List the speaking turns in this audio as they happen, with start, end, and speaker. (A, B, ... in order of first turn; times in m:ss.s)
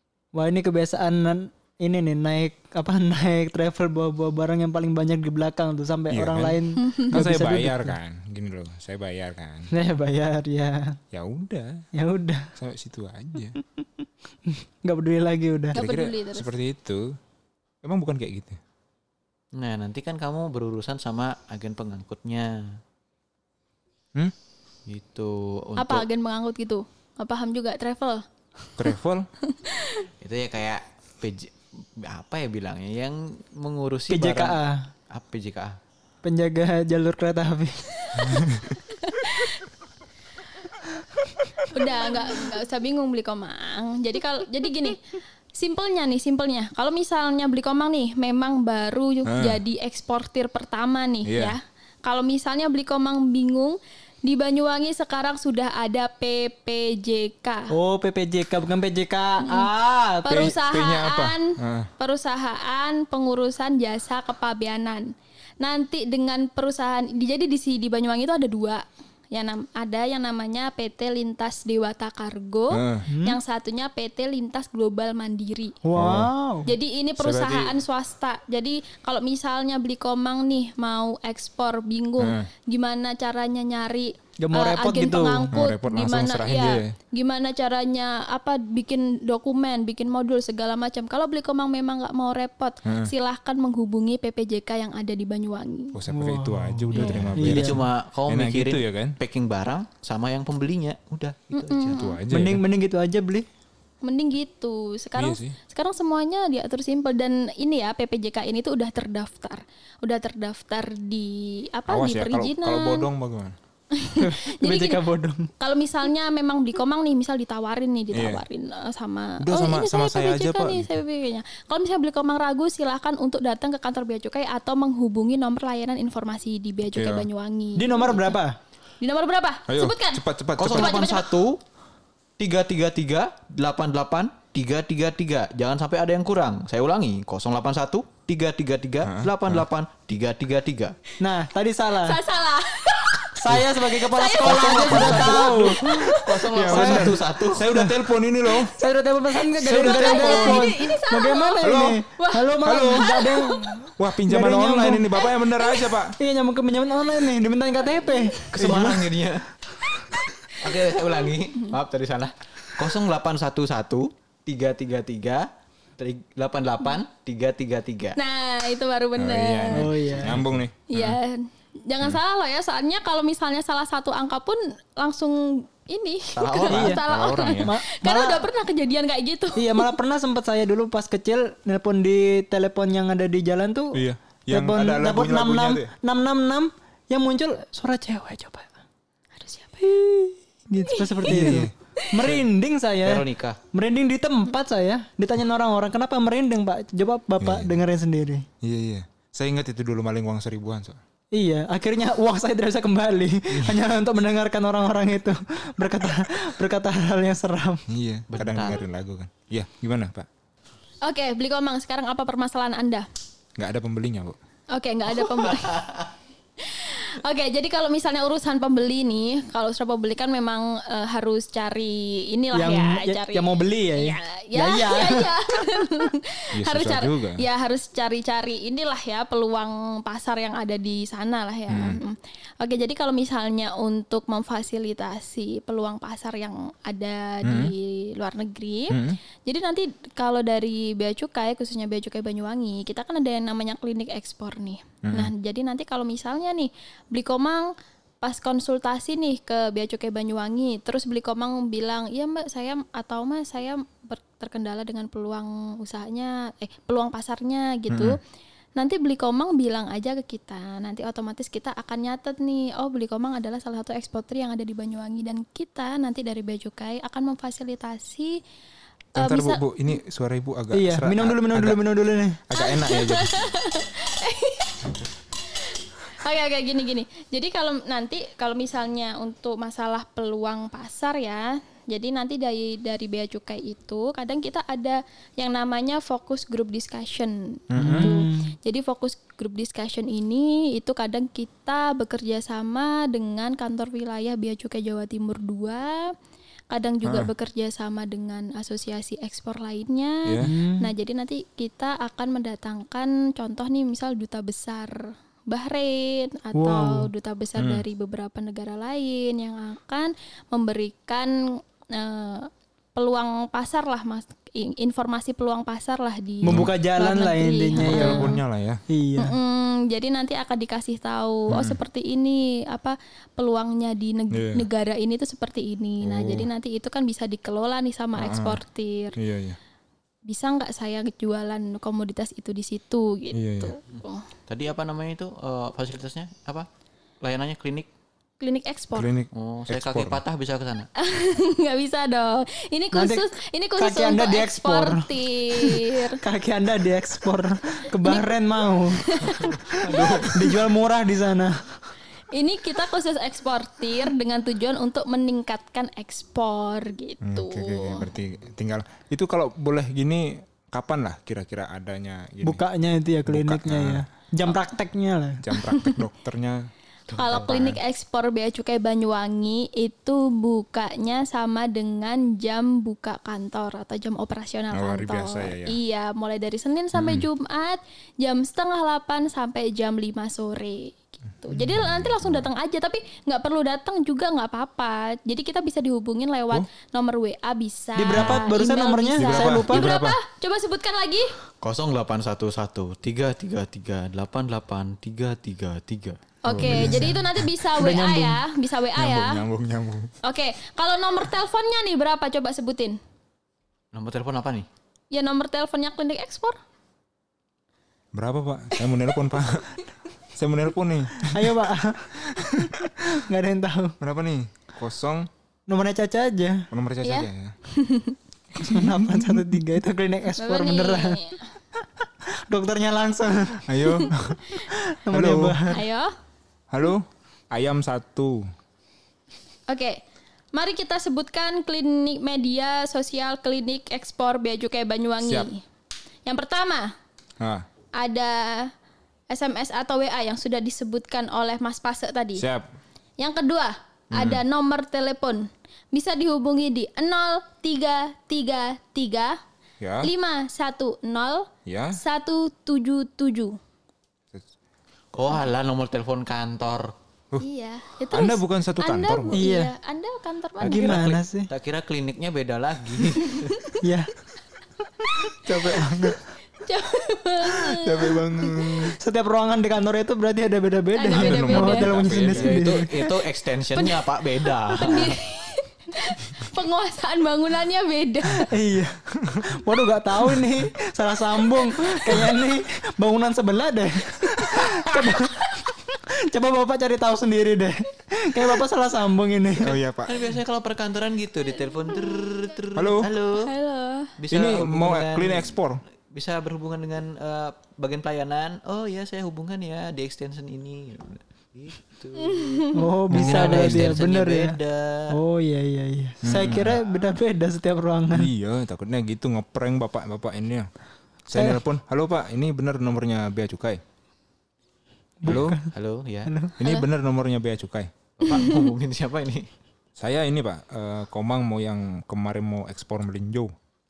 0:00.3-0:07.9 A
0:06.1-0:06.6 B
0:06.8-0:07.1 C
0:07.1-0:09.7 B
0:09.7-0:11.0 A
0:11.1-0:11.8 B
0:11.9-0:12.5 A
0:12.6-0:13.6 B
0:13.8-0:15.8 A
0:15.7-0:17.2 B
0:15.7-0:16.5 C
0:17.8-0:18.6 B
0:19.5-0:22.8 D
0:24.9-0:26.0 D
0:25.8-0:28.7 C
0:28.8-0:29.3 B
0:29.5-0:30.0 C
0:30.2-0:34.6 D
0:34.1-0:34.9 A
0:35.1-0:35.8 D
0:36.2-0:38.4 A
0:38.1-0:39.6 C
0:38.2-0:38.7 B
0:41.7-0:45.0 C
0:45.5-0:57.7 C
0:49.2-0:49.6 B
0:51.2-0:51.5 B
0:57.7-1:00.5 A
0:59.4-0:59.7 C
1:00.2-1:15.8 C
1:00.3-1:01.9 B
1:12.7-1:13.0 B
1:13.1-1:13.4 A
1:15.8-1:16.7 A
1:15.9-1:16.3 B
1:16.6-1:36.0 C
1:17.2-1:17.8 B
1:22.2-1:22.5 B
1:24.4-1:25.5 A
1:25.5-1:26.9 B
1:32.8-1:33.1 B
1:35.9-1:39.2 B
1:36.1-1:37.8 A
1:37.0-1:42.0 D
1:41.6-1:42.2 C
1:42.0-1:42.6 B
1:42.3-1:43.4 A
1:44.0-1:53.1 C
1:45.2-1:45.6 B
1:51.9-1:53.6 B
1:53.9-1:55.0 C
1:54.2-1:55.5 A
1:55.6-2:08.4 C
1:58.1-1:58.4 B
1:59.4-2:01.0 B
2:06.9-2:07.3 B
2:07.8-2:08.6 A
2:09.0-2:11.3 C
2:09.7-2:11.0 B
2:10.6-2:11.6 D
2:12.4-2:21.0 D
2:19.0-2:19.6 B
2:21.2-2:22.2 A
2:22.0-2:25.8 C
2:23.4-2:28.0 A
2:24.4-2:27.8 D
2:24.9-2:28.7 B
2:28.7-2:35.1 A
2:29.6-2:30.7 B
2:29.7-2:33.8 C
2:31.6-2:32.0 B
2:32.6-2:33.1 B
2:34.0-2:36.2 B
2:35.2-2:36.0 C
2:36.2-2:39.1 A
2:38.5-2:39.5 D
2:39.9-2:41.7 C
2:40.6-2:48.2 D
2:48.2-2:49.9 C
2:49.2-2:51.2 B
2:49.7-2:50.4 A
2:50.2-2:50.5 D
2:50.9-2:59.8 C
2:56.3-2:57.0 D
2:56.7-2:57.0 A
2:57.1-2:57.7 B
2:57.5-2:58.5 A
2:59.6-3:08.7 A
3:03.9-3:05.9 B
3:09.4-3:10.0 C
3:09.8-3:18.5 A
3:10.9-3:12.1 C
3:11.2-3:11.7 B
3:13.0-3:13.6 D
3:17.4-3:17.8 B
3:18.6-3:21.0 B
3:21.3-3:27.8 A
3:27.9-3:30.3 B
3:28.3-3:28.8 D
3:31.0-3:33.1 C
3:33.6-3:34.4 B
3:34.7-3:35.9 C
3:35.4-3:36.1 D
3:36.6-4:18.2 C
3:42.5-3:45.8 A
3:46.5-3:47.4 B
3:51.7-3:52.0 B
3:57.4-3:57.7 B
3:58.9-3:59.2 B
4:05.0-4:05.3 B
4:17.9-4:18.2 B
4:18.8-4:28.4 C
4:29.1-4:33.5 B
4:29.2-4:29.6 C
4:30.7-4:32.4 A
4:32.6-4:35.0 C
4:35.5-4:56.1 C
4:47.7-4:48.1 B
4:47.8-4:48.5 A
4:56.7-5:18.4 C
5:00.2-5:00.5 B
5:00.4-5:00.9 A
5:06.5-5:07.1 A
5:07.6-5:07.8 B
5:16.4-5:18.4 A
5:16.5-5:16.7 B
5:17.8-5:18.8 B
5:18.9-5:19.4 A
5:19.2-5:29.1 C
5:21.5-5:21.8 B
5:24.3-5:24.7 B
5:26.0-5:26.5 B
5:28.2-5:28.6 B
5:29.2-5:29.6 B
5:30.2-5:34.3 C
5:33.3-5:33.8 B
5:34.5-5:36.7 D
5:37.2-5:37.9 D
5:38.4-5:39.1 C
5:38.9-5:40.2 B
5:39.3-5:40.9 D
5:41.0-5:46.2 C
5:42.9-5:51.7 A
5:48.0-5:48.3 C
5:48.9-5:50.3 C
5:49.8-5:50.5 D
5:52.3-5:58.1 C
5:57.2-6:02.6 B
6:02.4-6:05.4 A
6:03.2-6:04.5 B
6:05.4-6:06.6 B
6:07.1-6:07.8 D
6:07.2-6:31.4 C
6:14.7-6:15.8 B
6:16.9-6:17.2 B
6:21.5-6:22.5 B
6:28.0-6:29.9 A
6:28.1-6:28.5 B
6:29.2-6:30.2 B
6:31.6-6:36.4 D
6:36.4-6:39.4 C
6:36.5-6:37.4 B
6:36.6-6:38.4 A
6:39.0-6:40.1 B
6:40.2-6:43.0 C
6:43.9-6:44.7 D
6:45.1-6:46.6 C
6:48.1-6:49.8 B
6:50.3-6:51.7 B
6:51.2-6:54.0 A
6:52.2-6:52.9 B
6:54.0-6:55.3 B
6:55.7-6:56.7 A
6:56.7-6:57.6 B
6:57.0-6:58.2 C
6:58.6-7:01.2 A
6:58.6-6:58.9 B
7:00.4-7:01.4 C
7:01.8-7:03.7 A
7:03.6-7:04.6 B
7:04.6-7:05.8 A
7:05.1-7:05.6 B
7:05.7-7:06.1 C
7:06.7-7:08.5 B
7:09.7-7:10.0 C
7:10.5-7:15.6 C
7:15.2-7:15.5 B
7:16.2-7:16.9 C
7:17.4-7:17.6 B
7:18.0-7:18.7 C
7:19.3-7:22.4 C
7:22.4-7:22.7 B
7:23.2-7:29.4 C
7:24.1-7:24.4 B
7:29.8-7:30.1 B
7:30.0-7:33.6 C
7:31.6-7:32.0 B
7:35.1-7:36.9 D
7:37.4-7:41.1 C
7:38.1-7:39.4 B
7:39.3-7:39.7 A
7:40.6-7:41.5 A
7:40.7-7:43.5 D
7:43.8-7:44.1 A
7:45.4-7:46.2 B
7:46.6-7:48.9 C
7:47.4-7:49.0 B
7:49.0-7:53.0 A
7:50.9-7:52.0 C
7:51.1-7:52.8 B
7:52.1-7:55.2 D
7:53.7-7:58.5 C
7:58.3-8:09.7 A
8:09.6-8:10.3 B
8:10.0-8:13.5 D
8:12.7-8:13.1 B
8:13.3-8:14.1 C
8:14.2-8:25.2 D
8:14.3-8:15.8 B
8:22.3-8:22.8 C
8:22.7-8:24.6 A
8:23.1-8:23.9 B
8:25.1-8:28.3 A
8:26.2-8:26.8 B
8:28.1-8:30.7 B
8:31.3-8:33.8 B
8:35.2-8:35.7 A
8:35.2-8:35.6 B
8:35.7-8:36.3 D
8:36.3-8:36.6 A
8:36.6-8:37.9 B
8:38.2-8:39.5 D
8:40.0-8:43.5 B